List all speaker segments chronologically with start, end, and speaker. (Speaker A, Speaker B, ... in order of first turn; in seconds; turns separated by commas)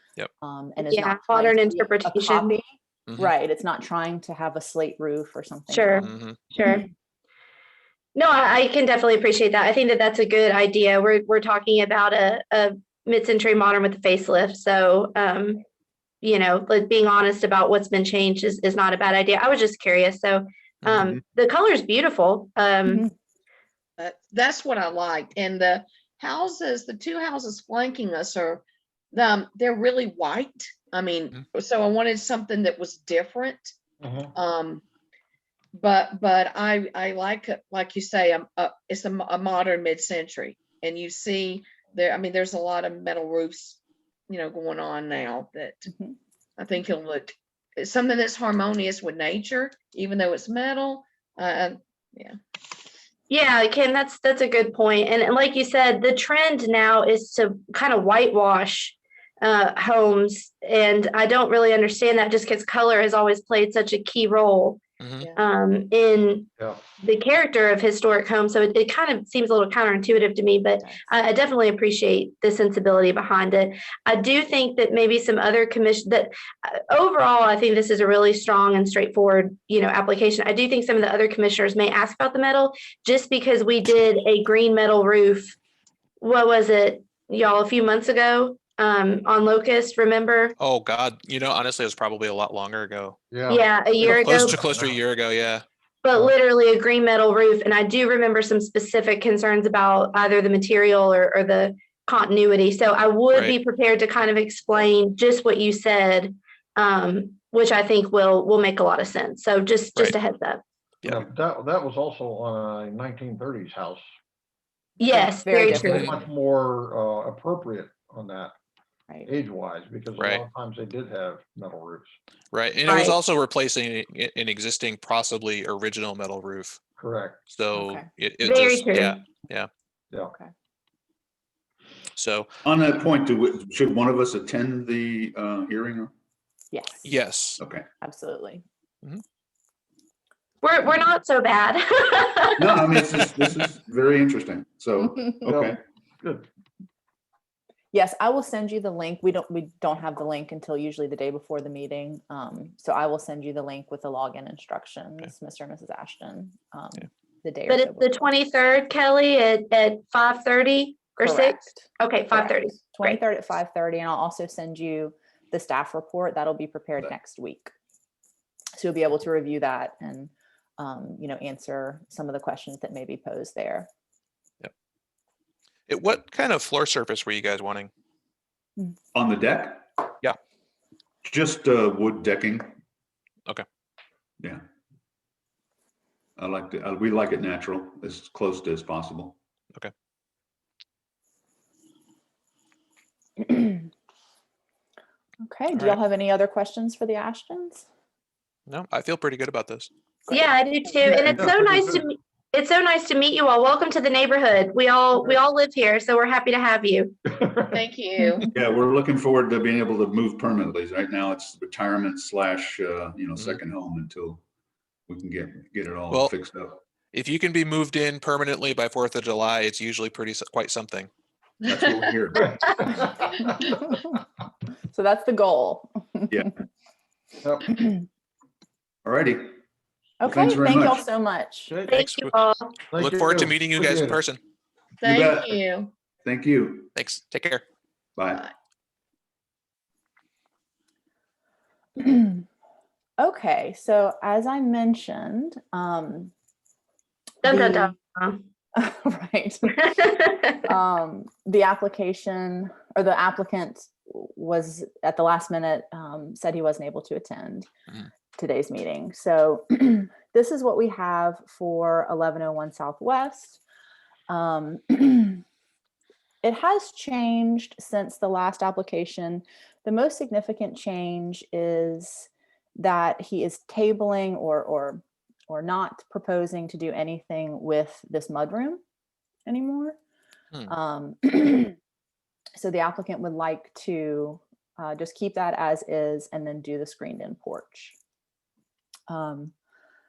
Speaker A: 0.4-2.6, Speaker B: 0.8-2.5, Speaker A: 3.2-6.1, Speaker B: 5.7-6.9, Speaker C: 6.0-6.4, Speaker B: 8.1-15.6, Speaker B: 16.2-23.0, Speaker C: 20.8-21.1, Speaker A: 22.9-23.1, Speaker D: 24.0-33.8, Speaker E: 34.0-34.3, Speaker D: 34.3-34.8, Speaker D: 35.7-45.9, Speaker D: 46.6-52.4, Speaker B: 53.3-64.8, Speaker C: 65.0-65.3, Speaker B: 65.3-66.5, Speaker B: 67.0-85.6, Speaker B: 86.2-90.5, Speaker C: 90.6-93.2, Speaker E: 93.3-95.0, Speaker B: 93.5-94.6, Speaker C: 94.0-95.6, Speaker B: 96.0-110.6, Speaker E: 111.1-114.0, Speaker B: 115.0-116.2, Speaker A: 115.1-116.2, Speaker E: 115.7-118.5, Speaker E: 119.2-122.2, Speaker C: 120.2-120.4, Speaker C: 122.5-126.8, Speaker B: 122.9-123.2, Speaker E: 127.0-127.4, Speaker C: 127.5-129.7, Speaker A: 127.7-128.1, Speaker B: 128.4-129.2, Speaker C: 132.2-132.5, Speaker F: 132.6-136.1, Speaker A: 136.7-137.1, Speaker C: 137.0-137.6, Speaker F: 137.6-137.8, Speaker A: 138.0-138.6, Speaker B: 140.6-142.7, Speaker F: 142.6-145.8, Speaker E: 145.5-146.4, Speaker A: 147.9-158.3, Speaker B: 157.7-163.2, Speaker A: 161.2-167.7, Speaker A: 168.8-173.9, Speaker C: 175.9-177.9, Speaker F: 179.1-179.9, Speaker F: 181.2-182.7, Speaker F: 186.4-189.4, Speaker A: 193.4-193.9, Speaker A: 195.4-197.8, Speaker C: 195.7-196.0, Speaker C: 198.7-199.9, Speaker B: 200.3-207.1, Speaker A: 201.0-201.4, Speaker E: 207.3-207.7, Speaker D: 207.7-208.5, Speaker F: 208.5-214.4, Speaker F: 215.1-216.8, Speaker C: 217.1-221.1, Speaker D: 221.6-222.1, Speaker F: 221.6-222.5, Speaker E: 222.4-223.7, Speaker A: 223.3-224.1, Speaker A: 224.9-226.3, Speaker E: 227.4-227.7, Speaker F: 229.0-229.6, Speaker A: 230.2-231.8, Speaker F: 230.2-231.0, Speaker E: 231.7-232.0, Speaker B: 231.9-232.8, Speaker C: 231.9-232.3, Speaker E: 232.9-234.2, Speaker C: 232.9-234.4, Speaker D: 235.0-235.9, Speaker F: 235.0-235.6, Speaker F: 236.2-236.9, Speaker C: 236.9-237.6, Speaker F: 238.2-238.4, Speaker A: 242.0-242.4, Speaker A: 243.2-246.3, Speaker B: 247.4-248.4, Speaker A: 247.4-247.9, Speaker A: 248.8-257.7, Speaker A: 258.4-263.6, Speaker A: 264.3-265.4, Speaker A: 266.4-278.8, Speaker A: 279.4-280.0, Speaker A: 280.7-281.8, Speaker A: 282.6-287.9, Speaker A: 289.1-289.5